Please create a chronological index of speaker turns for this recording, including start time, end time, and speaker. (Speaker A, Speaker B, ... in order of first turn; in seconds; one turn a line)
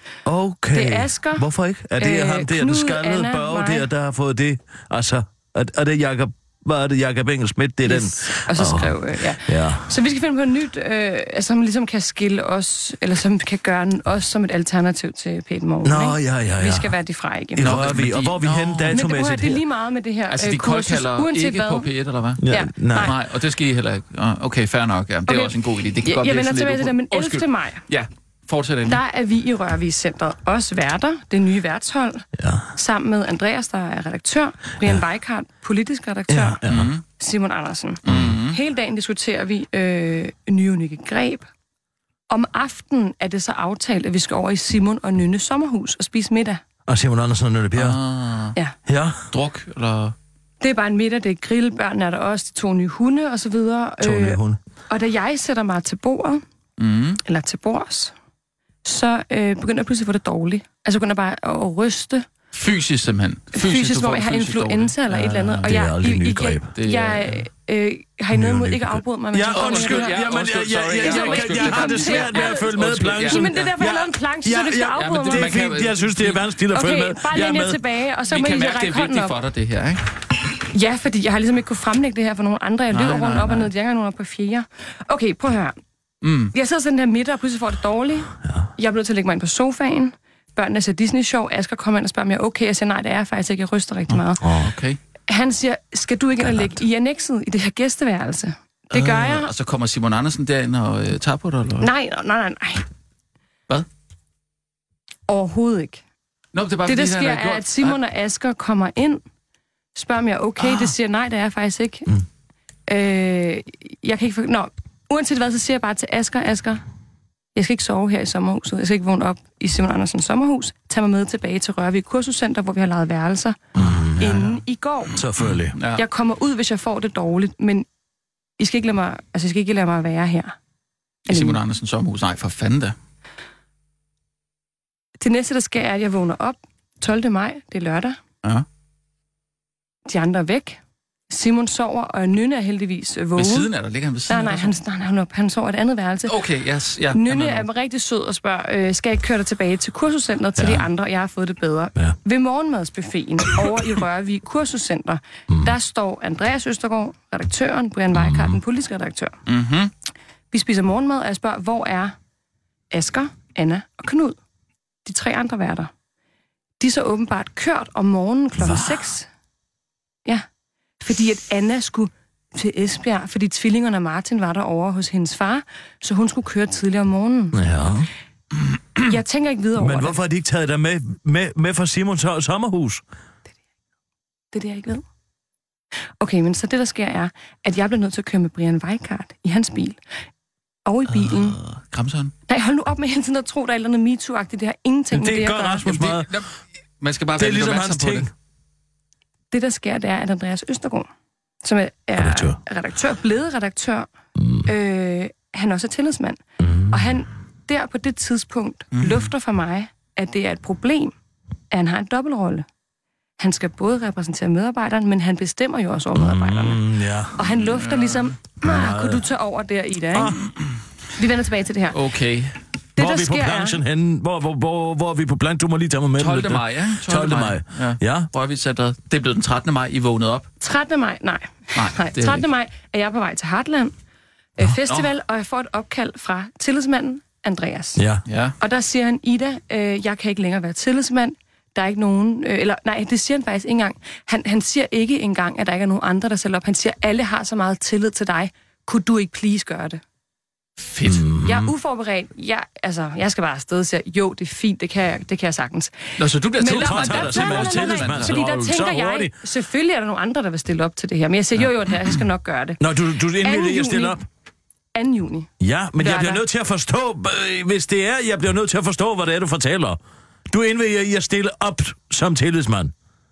Speaker A: 0.2-9.9
Speaker B: 0.7-3.9
Speaker B: 7.8-17.8
Speaker A: 15.8-16.9
Speaker A: 17.6-19.6
Speaker C: 17.6-19.0
Speaker B: 18.9-21.9
Speaker C: 20.3-22.4
Speaker A: 22.4-23.1
Speaker B: 22.5-23.1
Speaker C: 23.0-29.0
Speaker B: 25.3-27.9
Speaker B: 28.9-36.6
Speaker A: 32.4-32.7
Speaker A: 36.3-36.9
Speaker C: 36.7-37.0
Speaker B: 37.2-41.4
Speaker C: 38.0-38.6
Speaker A: 38.1-38.4
Speaker B: 42.3-46.6
Speaker A: 46.9-48.0
Speaker C: 47.8-48.6
Speaker A: 48.9-49.2
Speaker C: 49.3-50.1
Speaker B: 50.6-56.4
Speaker A: 54.0-54.6
Speaker C: 56.8-57.2
Speaker B: 57.2-58.1
Speaker B: 58.8-62.2
Speaker C: 62.5-65.8
Speaker B: 63.5-70.2
Speaker A: 65.6-66.7
Speaker C: 66.8-67.4
Speaker A: 68.3-77.8
Speaker C: 69.5-73.5
Speaker B: 71.0-72.7
Speaker B: 73.3-75.6
Speaker C: 75.0-76.4
Speaker B: 76.7-79.4
Speaker C: 78.3-80.0
Speaker B: 80.7-85.8
Speaker C: 82.9-83.7
Speaker C: 86.2-86.5
Speaker B: 86.5-94.4
Speaker A: 88.4-88.7
Speaker C: 94.1-95.0
Speaker A: 94.4-94.7
Speaker B: 95.3-99.5
Speaker A: 96.4-96.8
Speaker C: 98.9-101.9
Speaker B: 101.8-102.8
Speaker B: 105.3-106.0
Speaker C: 106.5-108.0
Speaker B: 106.9-109.2
Speaker B: 109.9-112.1
Speaker C: 110.6-110.9
Speaker B: 112.9-116.8
Speaker B: 117.5-123.6
Speaker A: 123.8-124.4
Speaker B: 124.2-125.2
Speaker A: 125.2-125.8
Speaker C: 125.5-126.0
Speaker B: 125.9-127.9
Speaker B: 128.6-130.6
Speaker C: 131.3-132.9
Speaker B: 131.3-131.6
Speaker B: 135.2-138.2
Speaker B: 140.1-143.7
Speaker C: 143.4-144.8
Speaker B: 144.3-146.4
Speaker C: 146.3-147.7
Speaker B: 147.1-159.3
Speaker A: 150.6-150.8
Speaker A: 158.1-158.6
Speaker C: 159.4-159.9
Speaker B: 160.5-162.2
Speaker B: 162.9-164.4
Speaker B: 165.1-165.9
Speaker B: 166.8-169.3
Speaker A: 168.6-169.0
Speaker B: 171.0-177.6
Speaker A: 177.5-178.1
Speaker B: 179.0-180.2
Speaker A: 179.8-183.0
Speaker B: 184.5-185.0
Speaker B: 186.2-190.0
Speaker B: 190.9-191.6
Speaker C: 191.1-192.3
Speaker B: 192.5-195.9
Speaker A: 195.1-196.3
Speaker C: 195.9-196.5
Speaker C: 197.0-198.3
Speaker A: 197.4-198.3
Speaker B: 199.5-201.1
Speaker B: 201.6-204.1
Speaker A: 202.2-202.6
Speaker A: 204.4-204.7
Speaker B: 204.7-211.1
Speaker A: 206.6-207.2
Speaker C: 208.9-209.3
Speaker B: 211.7-212.7
Speaker B: 213.4-216.8
Speaker A: 216.2-217.4
Speaker B: 217.3-220.3
Speaker C: 217.7-218.3
Speaker A: 218.6-219.2
Speaker A: 220.1-220.4
Speaker B: 221.2-222.0
Speaker C: 221.9-222.6
Speaker B: 222.9-223.8
Speaker A: 223.0-228.3
Speaker C: 226.2-230.5
Speaker B: 230.6-233.9
Speaker C: 231.8-232.4
Speaker B: 234.6-238.0
Speaker A: 237.9-238.2
Speaker C: 238.3-238.6
Speaker B: 238.6-250.0
Speaker C: 250.8-251.3
Speaker A: 251.1-251.7
Speaker B: 251.4-262.8
Speaker C: 256.2-258.4
Speaker A: 256.6-259.4
Speaker A: 262.8-264.2
Speaker B: 263.4-264.2
Speaker B: 264.9-266.4
Speaker A: 265.6-272.9